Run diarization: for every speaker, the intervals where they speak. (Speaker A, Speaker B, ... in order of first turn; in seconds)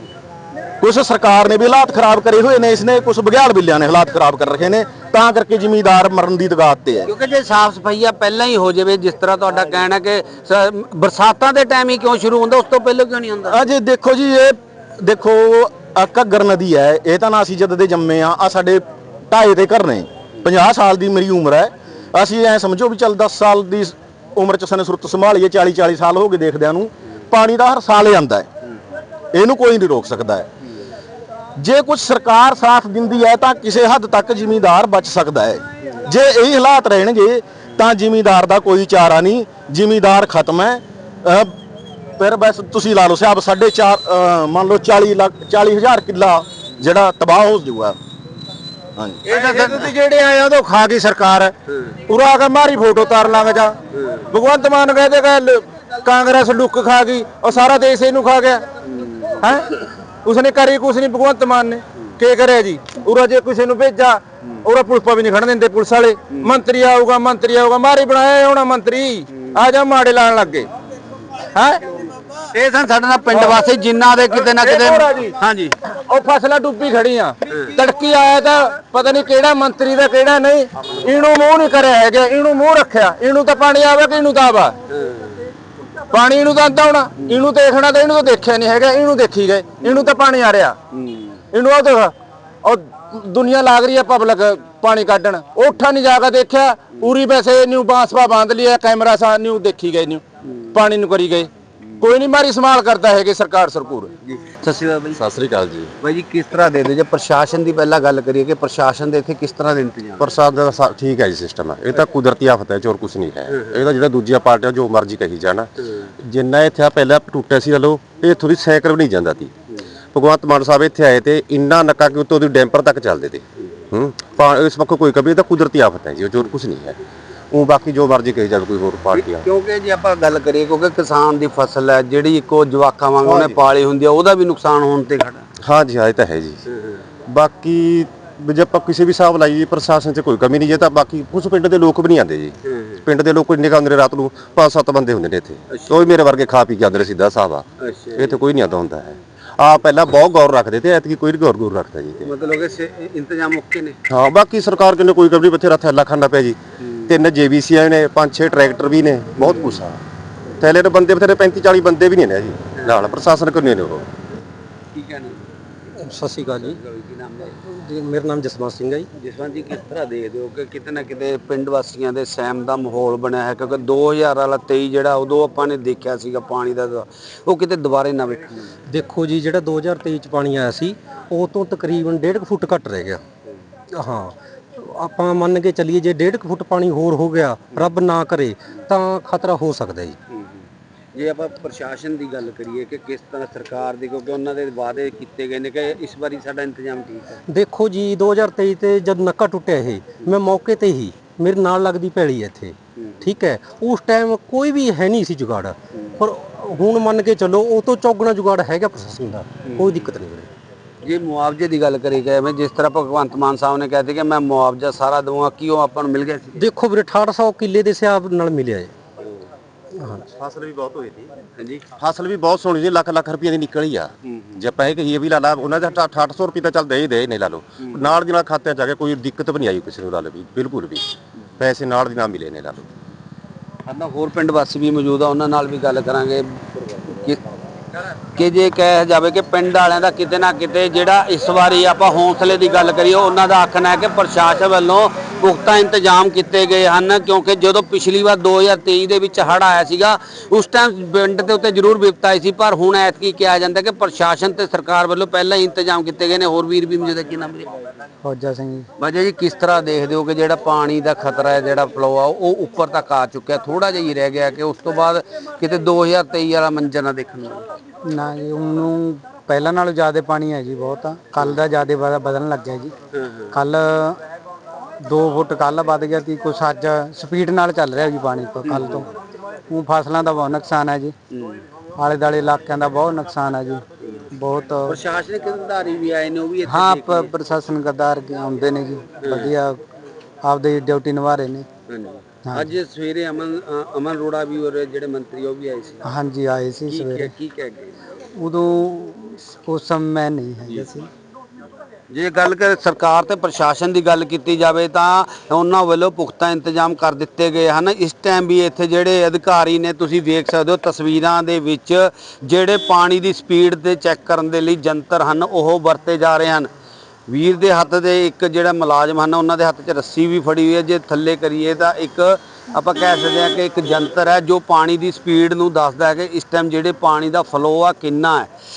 Speaker A: 0.8-7.1, 13.5-28.5, 29.3-30.5, 31.6-41.5, 42.2-47.9
Speaker B: 7.1-13.7, 49.3-49.9, 51.7-52.0, 53.9-54.3, 58.9-59.5, 72.5-75.7, 84.9-85.5, 89.8-90.1, 90.9-91.4, 104.3-105.2, 106.0-110.3, 113.5-113.8, 115.8-116.1, 129.1-135.5, 136.7-137.0, 142.6-143.0, 145.7-146.0, 147.8-148.4, 152.2-154.0, 156.8-157.1, 159.4-159.8, 164.9-165.4, 166.5-167.6, 169.2-178.7, 190.3-197.4, 203.0-203.3, 209.7-210.1, 211.0-216.7, 221.6-221.8, 224.2-224.6, 227.8-228.1, 233.8-237.4, 238.3-257.7, 259.0-267.6, 273.1-273.5, 278.7-279.0, 281.3-281.6, 284.9-287.3, 289.2-289.5, 291.9-296.1, 296.9-298.0, 302.1-316.7, 317.3-328.5
Speaker C: 49.2-51.5, 52.1-53.8, 54.3-58.6, 59.4-59.7, 60.2-70.7, 71.5-72.0, 73.3-73.6, 74.3-84.8, 86.1-90.8, 91.5-92.1, 92.6-100.2, 100.7-104.1
Speaker D: 105.2-105.9, 110.2-119.5, 120.1-127.0, 127.5-129.4, 133.2-133.6, 135.6-136.6, 137.3-147.6, 148.2-152.3, 154.1-160.0, 160.6-164.1, 220.3-221.3, 222.0-232.9
Speaker E: 166.0-166.8, 167.6-169.1, 178.9-183.2, 183.9-190.2, 197.5-210.5, 216.6-218.9, 219.9-220.2
Speaker F: 258.2-258.9, 268.0-272.9, 273.5-274.2, 275.1-279.1, 279.7-281.1, 282.0-285.0, 286.7-289.8, 290.4-291.7, 292.4-292.7, 296.0-297.3, 298.3-301.1